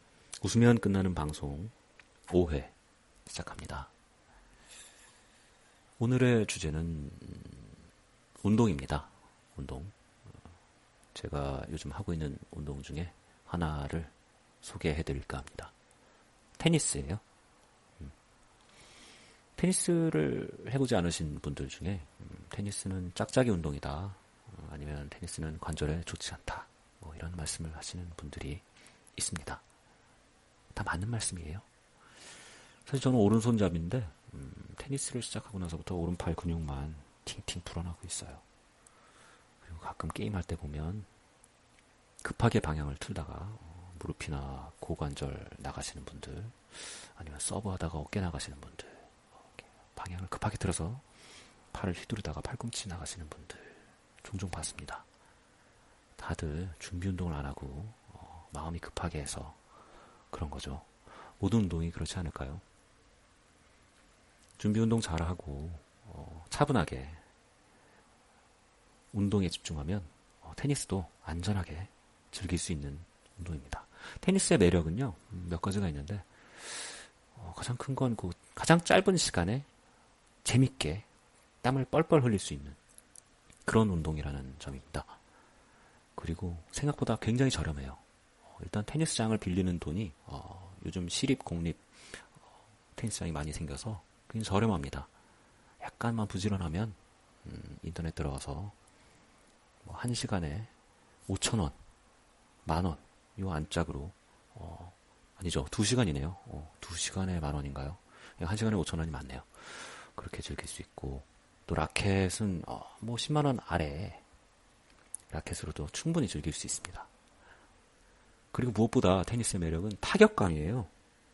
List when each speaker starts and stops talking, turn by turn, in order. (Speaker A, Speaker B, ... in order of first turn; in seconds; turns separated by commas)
Speaker A: 0.4-1.7, Speaker A: 2.3-2.7, Speaker A: 3.2-3.9, Speaker A: 6.0-7.7, Speaker A: 8.4-9.9, Speaker A: 11.1-15.7, Speaker A: 16.6-17.2, Speaker A: 19.6-28.6, Speaker A: 29.1-29.6, Speaker A: 30.7-31.6, Speaker A: 32.8-38.4, Speaker A: 39.6-41.1, Speaker A: 42.2-51.1, Speaker A: 51.7-55.0, Speaker A: 56.2-59.6, Speaker A: 60.3-62.6, Speaker A: 64.6-67.2, Speaker A: 69.1-79.7, Speaker A: 80.4-81.1, Speaker A: 81.6-82.8, Speaker A: 83.6-85.2, Speaker A: 86.2-92.3, Speaker A: 92.9-95.1, Speaker A: 95.8-98.7, Speaker A: 99.8-100.7, Speaker A: 101.3-101.8, Speaker A: 102.6-114.2, Speaker A: 115.3-117.1, Speaker A: 118.5-120.9